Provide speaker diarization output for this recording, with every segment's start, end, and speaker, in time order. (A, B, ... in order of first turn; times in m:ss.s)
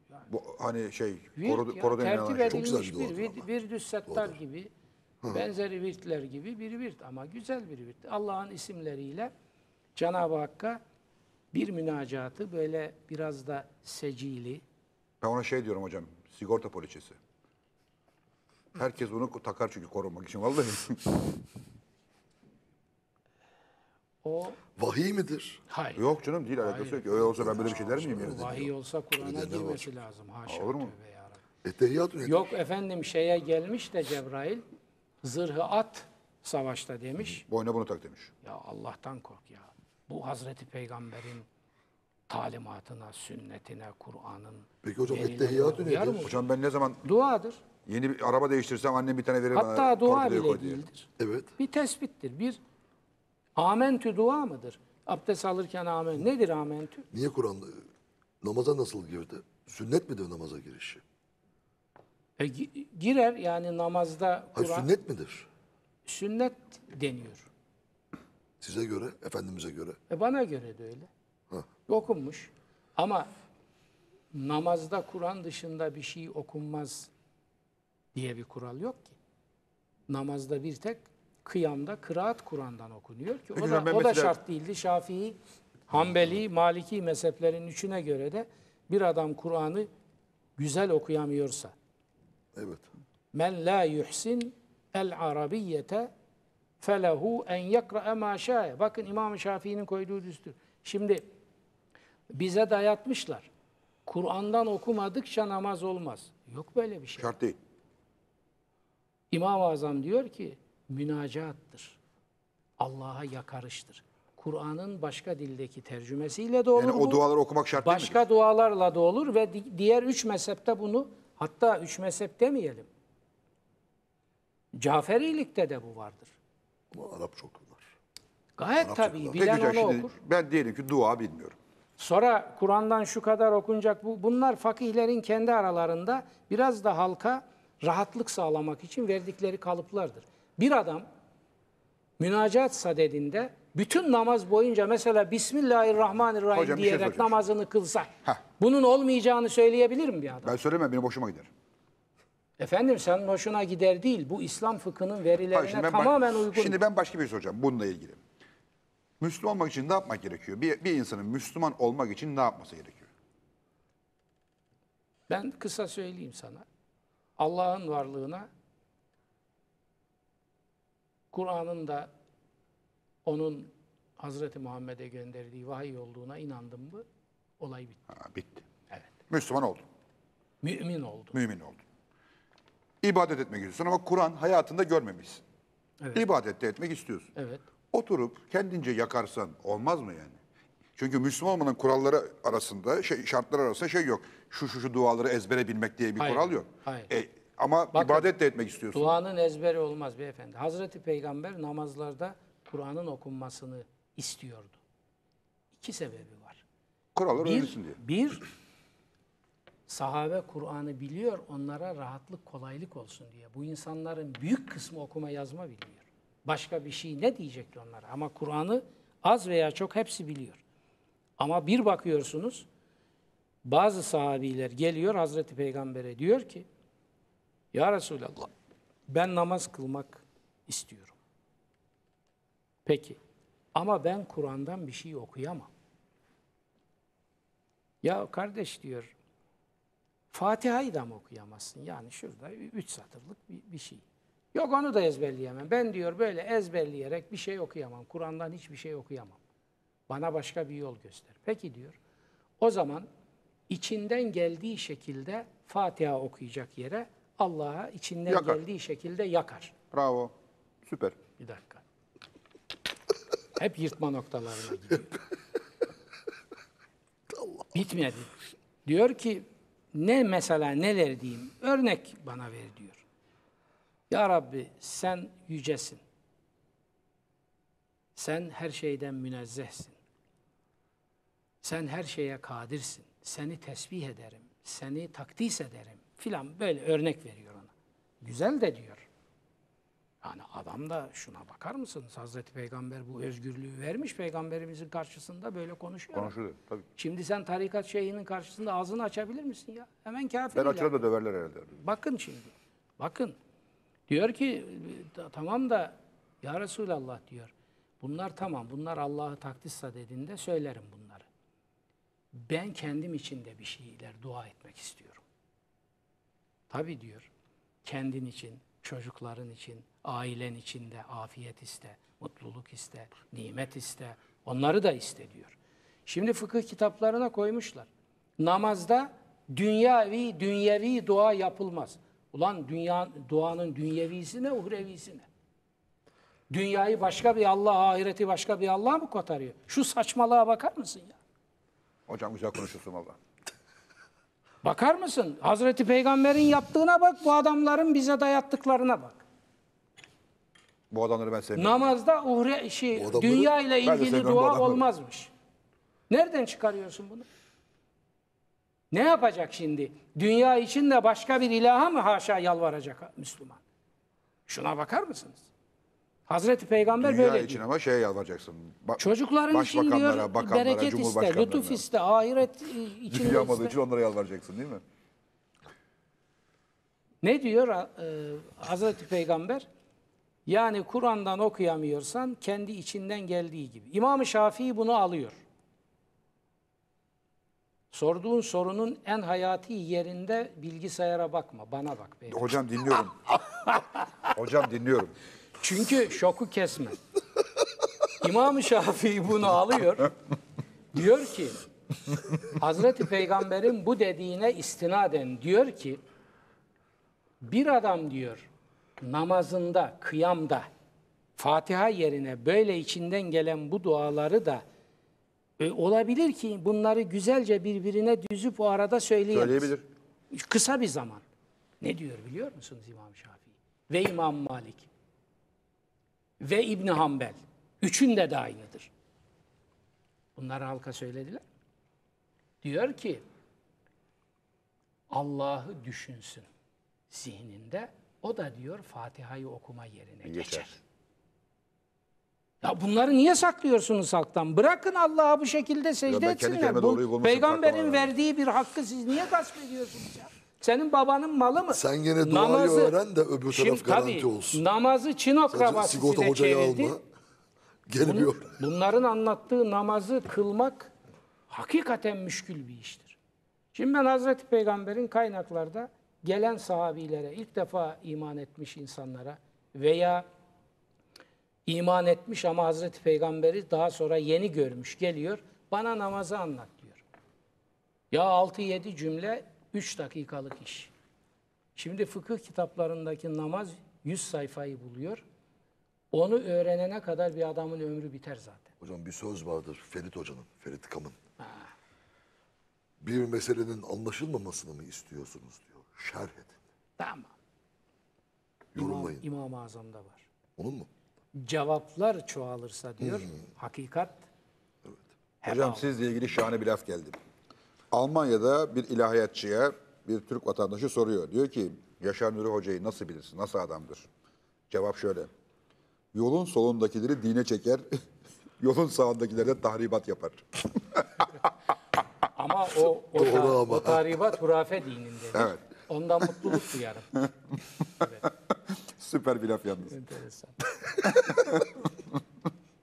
0:00.3-0:02.6 A
0:01.4-0:04.7 B
0:02.4-0:03.5 C
0:04.1-0:04.4 C
0:05.3-0:09.3 B
0:10.0-0:10.8 B
0:11.5-0:14.6 B
0:15.2-0:17.2 A
0:18.8-0:21.2 A
0:24.2-0:24.6 B
0:24.8-0:25.6 C
0:25.7-0:26.0 B
0:26.0-0:28.4 A
0:26.6-0:31.4 B
0:27.2-0:29.9 C
0:30.5-0:30.9 A
0:31.6-0:32.5 C
0:32.2-0:34.6 B
0:35.2-0:37.5 B
0:37.5-0:38.3 A
0:38.4-0:41.5 B
0:42.3-0:46.3 B
0:44.8-0:46.3 C
0:46.2-0:47.0 A
0:47.0-0:47.6 B
0:47.9-0:50.8 A
0:49.5-0:52.6 B
0:51.2-0:51.5 C
0:53.6-0:57.1 B
0:57.1-0:57.9 C
0:58.4-1:01.0 C
1:02.4-1:04.9 B
1:04.5-1:05.5 C
1:06.1-1:07.5 B
1:08.6-1:10.0 C
1:10.1-1:11.1 B
1:11.9-1:13.3 B
1:14.3-1:17.1 B
1:18.2-1:19.2 B
1:20.1-1:25.4 B
1:23.6-1:24.4 A
1:25.9-1:29.9 B
1:30.6-1:31.7 B
1:32.5-1:32.9 C
1:33.3-1:36.1 B
1:36.8-1:41.2 B
1:42.3-1:43.5 B
1:44.1-1:47.4 B
1:47.2-1:47.6 A
1:49.3-1:52.0 B
1:52.8-1:57.2 B
1:56.8-1:58.2 A
1:57.8-2:02.9 B
2:04.8-2:06.4 B
2:06.9-2:07.9 C
2:08.6-2:10.1 B
2:08.8-2:09.4 C
2:09.4-2:11.6 A
2:12.0-2:21.1 B
2:22.2-2:30.6 B
2:26.5-2:27.4 A
2:30.4-2:31.5 A
2:32.6-2:36.8 B
2:35.5-2:38.2 A
2:39.2-2:43.1 A
2:45.3-2:46.6 B
2:47.4-2:48.5 B
2:51.3-2:52.1 B
2:53.3-2:57.0 B
2:57.6-2:58.0 B
2:58.2-2:58.6 A
2:59.3-2:59.8 A
3:00.6-3:01.4 B
3:01.3-3:01.8 A
3:03.0-3:05.4 A
3:06.2-3:07.3 A
3:07.4-3:07.6 B
3:07.9-3:10.4 A
3:11.0-3:19.2 A
3:16.2-3:17.1 B
3:17.9-3:18.3 B
3:18.9-3:24.8 B
3:25.7-3:26.6 B
3:27.2-3:28.0 A
3:27.4-3:28.4 B
3:29.9-3:40.6 B
3:41.4-3:42.7 B
3:43.6-3:46.7 B
3:47.7-3:48.5 B
3:49.1-3:51.2 B
3:52.8-3:53.2 B
3:53.8-3:55.7 B
3:58.0-3:59.1 B
4:00.3-4:04.0 B
4:04.5-4:09.4 B
4:10.1-4:12.0 B
4:12.6-4:13.1 B
4:13.7-4:19.8 B
4:18.3-4:18.6 A
4:19.9-4:20.3 A
4:20.8-4:21.2 A
4:21.4-4:21.8 B
4:23.6-4:25.2 B
4:27.3-4:27.7 C
4:27.7-4:28.3 B
4:28.8-4:33.0 B
4:34.1-4:36.0 B
4:38.2-4:40.0 B
4:41.6-4:49.1 B
4:50.2-4:56.3 B
4:56.1-4:56.8 A
4:57.0-5:00.9 B
5:00.6-5:01.8 A
5:01.8-5:03.4 B
5:04.1-5:11.3 B
5:12.4-5:15.2 B
5:16.7-5:17.3 B
5:17.8-5:35.3 B
5:36.5-5:41.2 B
5:42.1-5:43.2 A
5:44.6-5:49.2 B
5:50.9-5:51.9 A
5:51.6-5:55.3 B
5:52.9-5:53.5 C
5:53.8-5:54.9 A
5:56.1-5:57.3 B
5:58.9-6:03.6 B
6:04.5-6:05.5 B
6:06.3-6:07.6 B
6:07.0-6:11.8 A
6:09.0-6:13.8 B
6:13.1-6:14.8 A
6:17.2-6:19.7 B
6:20.5-6:25.4 B
6:27.9-6:32.6 B
6:32.3-6:33.2 A
6:34.3-6:35.2 A
6:35.6-6:37.0 B
6:38.2-6:40.1 B
6:40.9-6:41.6 B
6:42.6-6:46.0 B
6:47.4-6:48.5 B
6:49.0-6:50.7 B
6:51.4-6:54.6 B
6:55.6-6:59.7 B
6:59.3-6:59.8 A
7:00.3-7:01.2 B
7:01.8-7:04.9 B
7:06.4-7:08.9 B
7:10.4-7:11.4 B
7:12.6-7:13.2 B
7:15.1-7:16.5 B
7:17.1-7:20.8 B
7:20.2-7:20.7 A
7:22.6-7:33.0 B
7:26.1-7:28.1 A
7:31.7-7:34.6 C
7:33.5-7:37.0 B
7:35.5-7:37.0 C
7:37.9-7:38.6 C
7:38.0-7:40.9 B
7:41.5-7:43.2 B
7:43.7-7:50.3 B
7:51.7-7:57.0 B
7:58.1-8:00.9 B
8:01.8-8:05.2 B
8:06.1-8:08.7 B
8:08.8-8:11.2 C
8:13.0-8:16.6 C
8:17.0-8:17.3 B
8:18.8-8:19.2 C
8:18.8-8:20.3 B
8:20.6-8:20.9 C
8:21.4-8:24.3 B
8:25.4-8:25.9 B
8:25.5-8:27.2 A
8:27.9-8:34.1 A
8:34.7-8:35.3 A
8:36.1-8:37.9 A
8:38.6-8:41.3 A
8:42.4-8:47.3 B
8:43.2-8:44.1 C
8:45.4-8:45.6 A
8:48.9-8:50.0 A
8:49.9-8:50.6 B
8:51.0-8:51.9 A